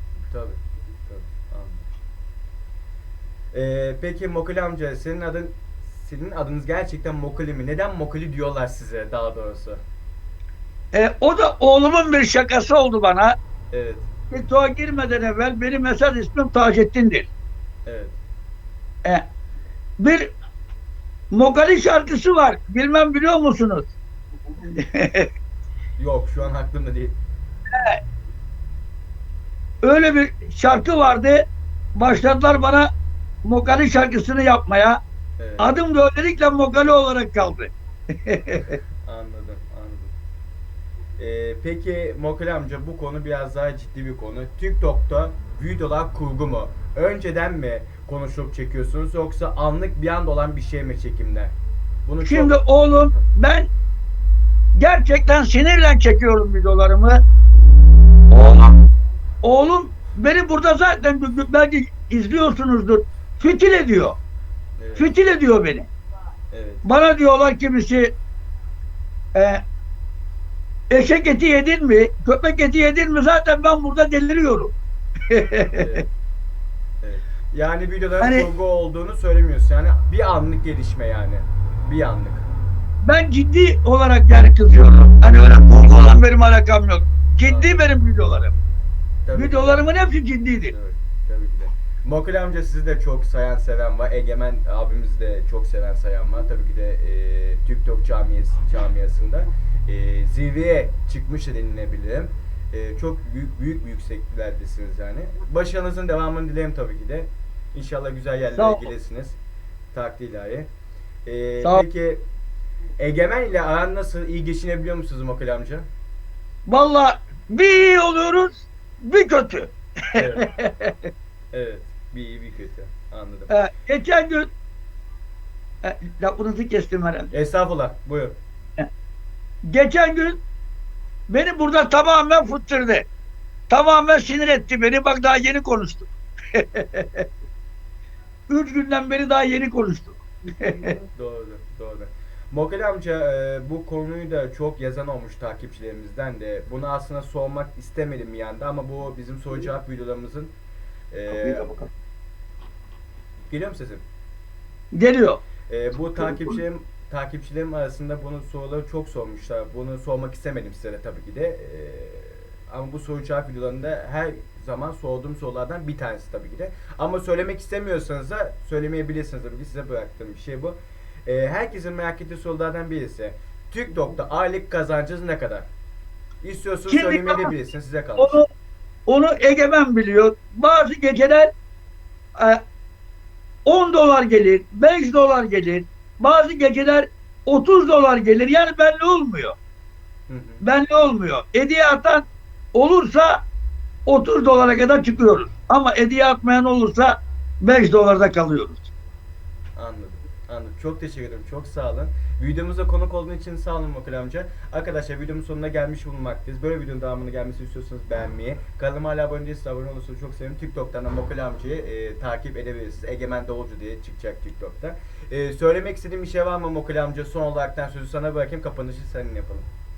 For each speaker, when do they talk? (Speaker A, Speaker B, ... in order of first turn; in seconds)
Speaker A: 0.3-1.9, 3.5-9.8, 13.7-14.1, 17.9-18.2, 26.0-27.2, 35.4-35.7, 39.0-40.1, 41.2-52.5, 64.8-65.1, 66.5-66.8, 75.7-76.1, 77.0-82.5, 87.4-88.0, 89.2-89.9, 90.7-109.4, 109.9-110.7, 111.2-112.2, 113.0-115.9, 120.2-120.5, 121.5-123.5, 127.3-128.4, 141.1-150.5, 151.1-151.8, 153.5-154.0, 155.7-175.7, 176.4-178.4, 190.3-190.6, 199.8-219.7
Speaker B: 10.9-13.3, 14.3-17.3, 20.0-20.3, 21.3-23.9, 24.7-25.3, 27.7-28.0, 29.8-32.9, 33.4-35.0, 35.6-37.7, 38.2-38.7, 52.2-53.7, 54.8-57.2, 58.3-58.7, 59.4-64.2, 65.0-65.9, 66.8-68.1, 69.3-69.6, 70.9-74.7, 75.3-76.0, 78.2-78.5, 83.0-88.5, 89.3-90.7, 108.6-108.9, 116.7-121.0, 123.5-124.5, 125.8-127.3, 129.6-130.4, 131.3-133.1, 133.7-137.2, 138.5-141.0, 151.3-151.9, 154.9-155.4, 156.1-156.5, 176.9-177.5, 178.2-178.4, 179.1-181.5, 182.3-182.6, 183.6-189.6, 190.6-193.4, 194.1-198.9